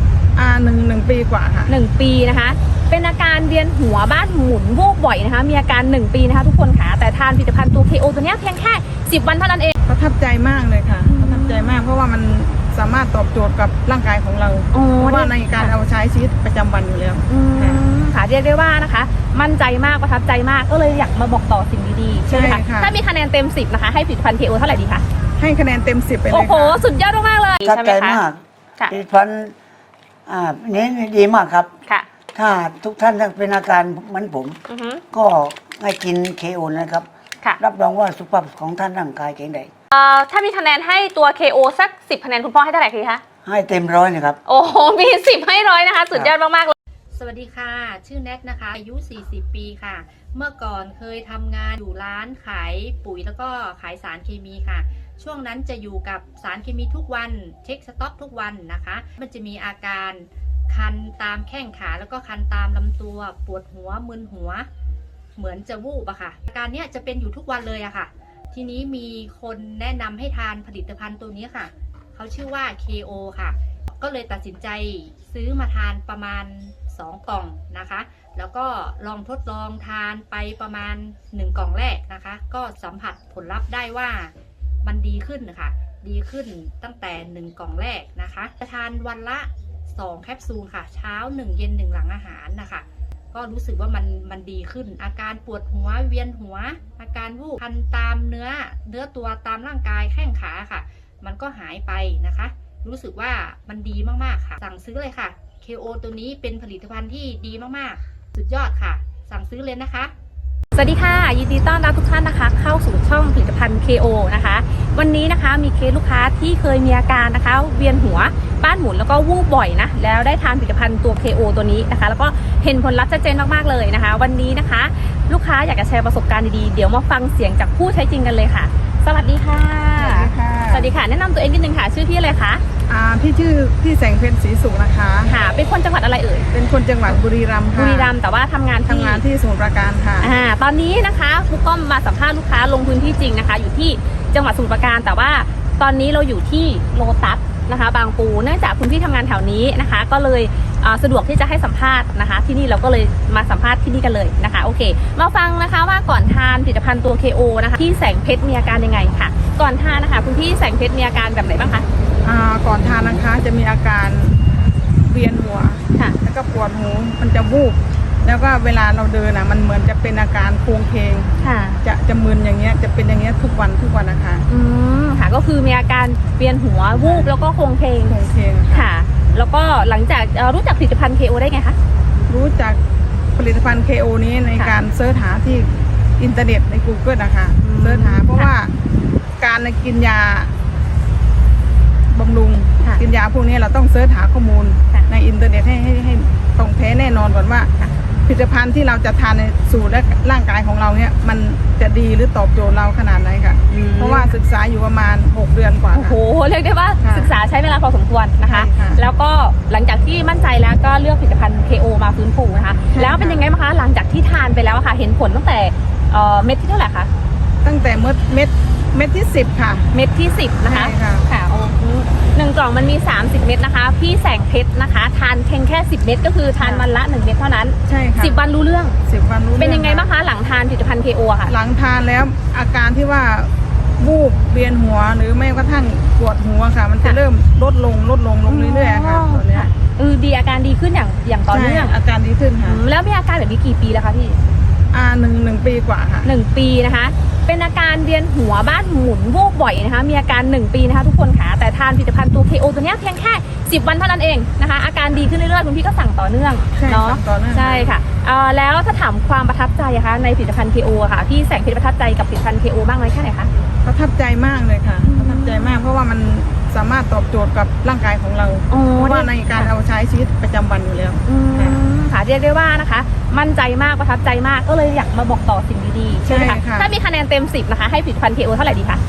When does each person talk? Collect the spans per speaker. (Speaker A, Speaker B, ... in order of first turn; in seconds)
Speaker A: 0.3-1.7, 9.9-17.8, 22.3-22.9, 25.4-26.8, 130.0-130.9, 132.9-135.3, 136.5-138.1, 138.9-140.3, 162.2-164.4, 164.9-171.3, 171.8-174.4, 176.9-177.3, 178.1-178.9, 182.3-182.8, 183.4-188.7, 189.4-190.5, 192.1-197.7, 198.3-206.2, 207.0-207.3, 208.5-209.0, 212.9-213.5, 217.6-219.9, 220.7-221.3, 226.6-226.9, 227.9-228.4, 229.1-230.1, 231.5-239.7, 241.5-242.8, 244.9-246.3, 256.8-257.9, 263.8-271.8, 276.3-276.9
Speaker B: 1.7-9.7, 11.1-11.8, 14.7-15.7, 17.3-25.1, 26.3-28.2, 34.7-35.0, 39.9-43.2, 44.5-46.8, 110.7-132.6, 135.3-136.5, 137.7-139.2, 140.2-161.9, 171.4-171.8, 174.5-178.2, 178.7-181.8, 187.6-188.5, 203.7-204.3, 205.9-217.1, 219.9-229.0, 229.6-231.6, 238.5-241.9, 242.6-244.4, 246.2-263.5, 265.0-265.8, 268.7-269.7, 271.3-279.0
Speaker C: 27.6-29.6, 30.3-31.7, 32.4-34.6, 35.1-37.1, 37.6-39.7, 43.5-44.4
Speaker D: 47.1-64.7, 65.4-110.1